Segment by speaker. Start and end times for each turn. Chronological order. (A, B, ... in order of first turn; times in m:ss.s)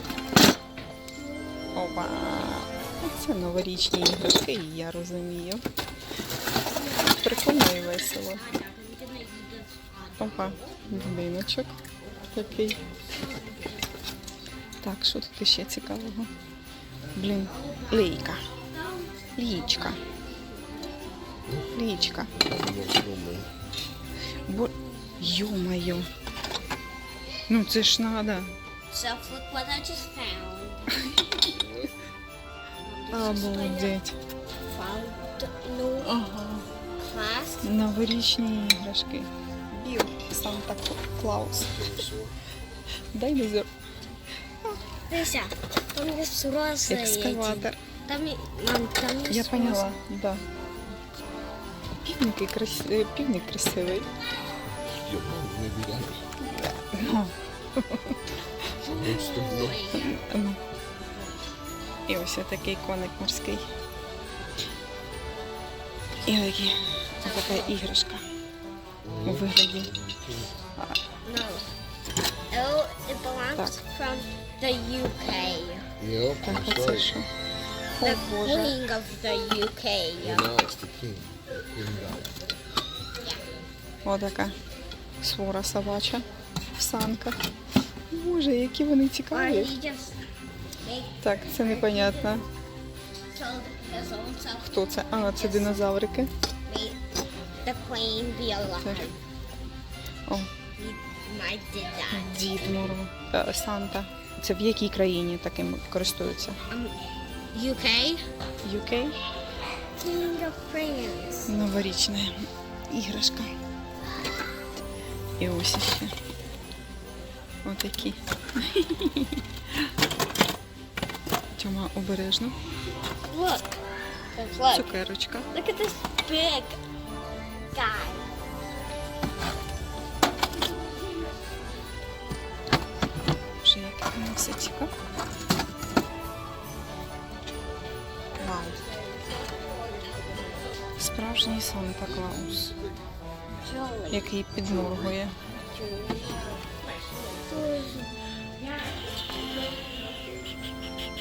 0:01.5-0:02.5 A
0:01.7-0:05.6 B
0:06.7-0:10.8 A
0:07.2-0:08.4 B
0:10.2-0:11.8 B
0:10.8-0:11.2 C
0:12.3-0:12.8 B
0:12.9-0:13.9 A
0:14.8-0:16.3 B
0:17.1-0:18.4 B
0:17.4-0:21.0 A
0:19.4-0:20.0 B
0:21.7-0:22.3 B
0:22.4-0:23.5 C
0:24.4-0:25.5 A
0:24.5-0:26.1 B
0:27.5-0:28.5 B
0:28.9-0:31.0 A
0:32.8-0:34.0 A
0:33.1-0:34.1 B
0:34.6-0:36.1 A
0:36.0-0:36.6 B
0:37.0-0:37.7 A
0:37.6-0:41.8 B
0:41.6-0:42.4 C
0:43.1-0:43.7 B
0:45.1-0:50.0 A
0:46.9-0:47.8 B
0:49.3-0:50.4 B
0:52.0-0:54.1 B
0:54.9-0:56.2 C
0:56.5-0:58.2 B
0:58.8-1:00.2 A
0:58.9-0:59.8 C
0:59.9-1:00.6 B
1:02.1-1:03.7 B
1:06.2-1:08.2 B
1:07.2-1:07.8 A
1:09.0-1:10.5 C
1:09.2-1:09.9 B
1:11.2-1:11.6 A
1:12.5-1:15.8 A
1:16.0-1:17.1 C
1:16.4-1:17.3 B
1:18.0-1:18.8 B
1:18.0-1:20.5 A
1:20.2-1:22.4 C
1:24.0-1:24.5 B
1:25.2-1:26.2 B
1:26.8-1:27.4 B
1:28.1-1:29.7 B
1:29.3-1:30.2 A
1:30.8-1:32.4 A
1:31.2-1:32.4 B
1:33.3-1:35.9 A
1:34.6-1:36.3 B
1:36.6-1:37.0 A
1:37.6-1:39.2 A
1:38.8-1:39.1 B
1:40.8-1:42.4 A
1:42.1-1:46.6 B
1:42.6-1:43.0 C
1:46.7-1:47.0 A
1:47.5-1:48.2 A
1:48.6-1:49.2 B
1:50.0-1:51.5 A
1:51.5-1:53.5 B
1:55.4-1:56.1 B
1:57.6-1:59.4 B
2:01.6-2:02.6 B
2:03.3-2:03.8 A
2:04.3-2:04.9 A
2:04.7-2:05.5 B
2:05.5-2:06.8 A
2:07.7-2:08.3 A
2:13.6-2:14.9 B
2:18.4-2:20.7 A
2:18.4-2:18.8 B
2:21.0-2:22.7 B
2:22.0-2:22.9 C
2:23.6-2:24.3 A
2:24.1-2:25.4 B
2:24.8-2:25.2 C
2:25.7-2:28.2 A